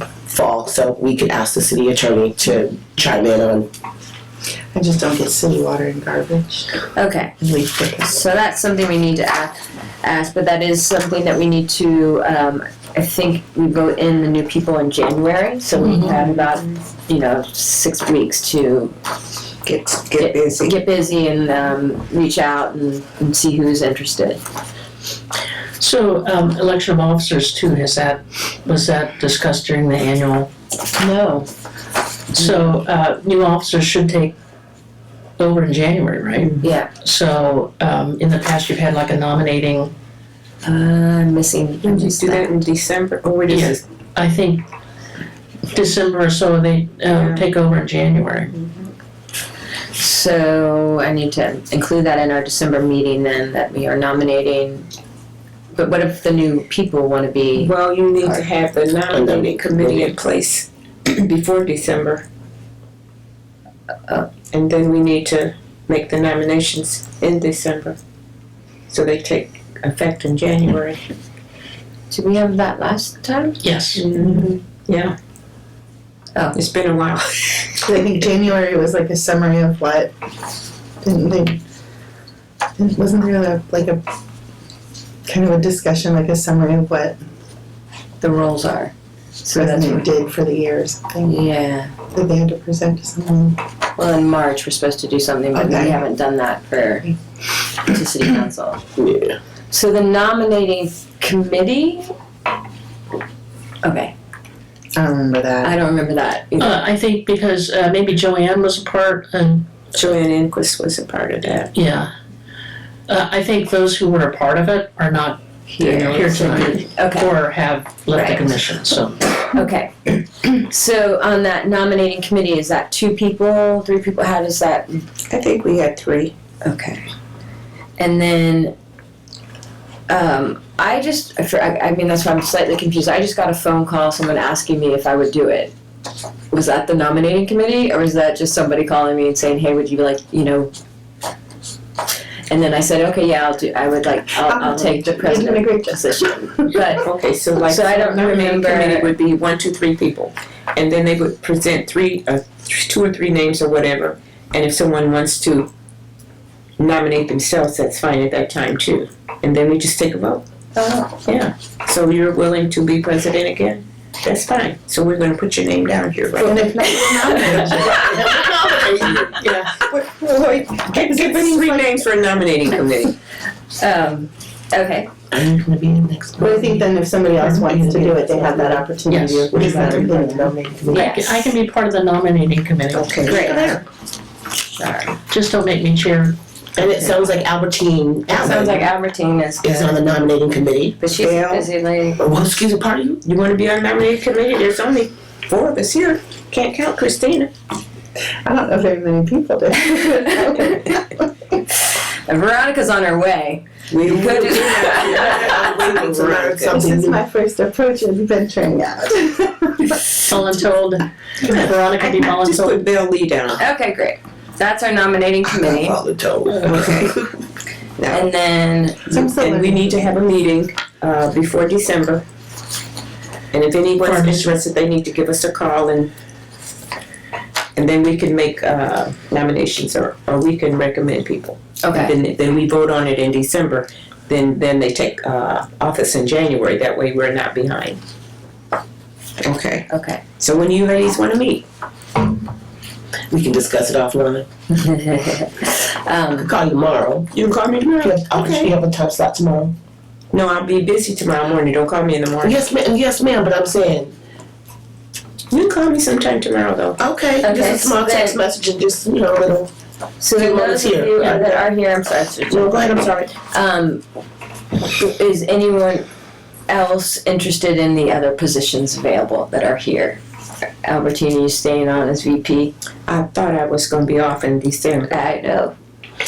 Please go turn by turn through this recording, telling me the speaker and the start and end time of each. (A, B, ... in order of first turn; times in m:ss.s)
0:00.2-0:03.7 A
0:04.7-0:06.8 B
0:07.0-0:18.9 C
0:07.6-0:07.9 B
0:15.8-0:16.2 D
0:15.8-0:16.7 E
0:19.6-0:20.8 E
0:20.2-0:24.4 C
0:25.8-0:30.5 D
0:31.0-0:31.5 C
0:32.4-0:34.4 D
0:35.4-0:39.9 D
0:36.6-0:36.9 C
0:40.6-0:42.5 C
0:41.8-0:43.8 E
0:43.5-0:44.6 D
0:45.7-0:48.6 D
0:47.2-0:47.5 E
0:50.0-0:54.9 C
0:55.7-0:58.4 C
0:57.6-1:02.3 E
0:59.1-1:00.2 A
1:04.5-1:08.0 E
1:08.9-1:11.0 E
1:12.1-1:13.6 C
1:13.6-1:14.1 D
1:14.0-1:15.2 E
1:14.2-1:14.5 B
1:16.5-1:17.8 E
1:17.8-1:20.1 B
1:21.0-1:21.6 B
1:22.8-1:24.0 B
1:25.3-1:27.2 B
1:28.2-1:30.0 C
1:29.5-1:31.5 B
1:31.2-1:32.0 C
1:32.1-1:33.6 B
1:34.0-1:37.2 C
1:35.6-1:36.0 B
1:37.8-1:38.8 C
1:39.0-1:39.3 A
1:39.7-1:42.1 C
1:43.8-1:44.1 C
1:45.0-1:45.8 B
1:45.6-1:46.8 C
1:46.6-1:49.7 D
1:49.9-1:51.7 E
1:51.7-1:52.1 D
1:53.1-1:59.3 D
1:55.8-1:57.3 C
1:55.8-1:56.9 E
1:58.2-1:58.6 C
1:59.4-2:05.1 C
2:05.3-2:06.3 E
2:06.6-2:07.1 C
2:08.0-2:08.7 C
2:10.1-2:15.7 C
2:16.5-2:20.7 C
2:22.5-2:27.1 C
2:24.4-2:27.0 B
2:27.0-2:35.7 E
2:27.6-2:29.1 C
2:36.8-2:40.4 E
2:40.8-2:41.2 C
2:41.3-2:48.2 E
2:46.4-2:48.5 B
2:47.4-2:49.4 A
2:49.4-2:53.1 E
2:50.9-2:52.0 B
2:53.8-2:55.1 C
2:55.3-2:56.9 A
2:56.4-3:00.6 B
2:57.4-2:58.9 A
2:59.1-3:00.1 D
2:59.5-3:01.1 A
3:00.9-3:01.3 C
3:00.9-3:03.4 D
3:03.0-3:03.8 A
3:03.2-3:03.8 C
3:04.8-3:05.2 C
3:05.3-3:07.2 D
3:06.8-3:08.9 A
3:08.3-3:10.0 C
3:09.6-3:13.2 A
3:11.0-3:12.2 C
3:13.2-3:17.5 E
3:18.4-3:21.2 B
3:21.8-3:26.0 C
3:23.9-3:26.8 E
3:25.2-3:27.2 A
3:26.7-3:30.2 B
3:30.2-3:32.8 D
3:31.5-3:33.6 E
3:33.6-3:36.0 C
3:35.5-3:37.2 A
3:36.6-3:37.1 E
3:38.0-3:38.3 E
3:38.1-3:39.0 C
3:39.1-3:40.0 B
3:39.1-3:42.2 E
3:43.5-3:46.1 E
3:44.0-3:44.5 D
3:47.8-3:58.0 E
3:51.8-3:52.1 C
3:59.4-3:59.9 E
3:59.9-4:00.2 C
4:00.4-4:01.7 E
4:03.3-4:04.5 A
4:04.7-4:06.5 C
4:06.4-4:07.3 A
4:07.3-4:08.7 E
4:08.0-4:09.7 A
4:10.3-4:12.6 E
4:12.4-4:14.1 A
4:15.5-4:17.0 E
4:17.0-4:19.7 A
4:17.4-4:18.4 C
4:20.2-4:24.0 C
4:20.4-4:21.6 A
4:22.5-4:23.3 A
4:24.8-4:26.1 C
4:26.7-4:30.2 C
4:30.8-4:32.7 C
4:33.1-4:35.2 E
4:35.1-4:35.7 C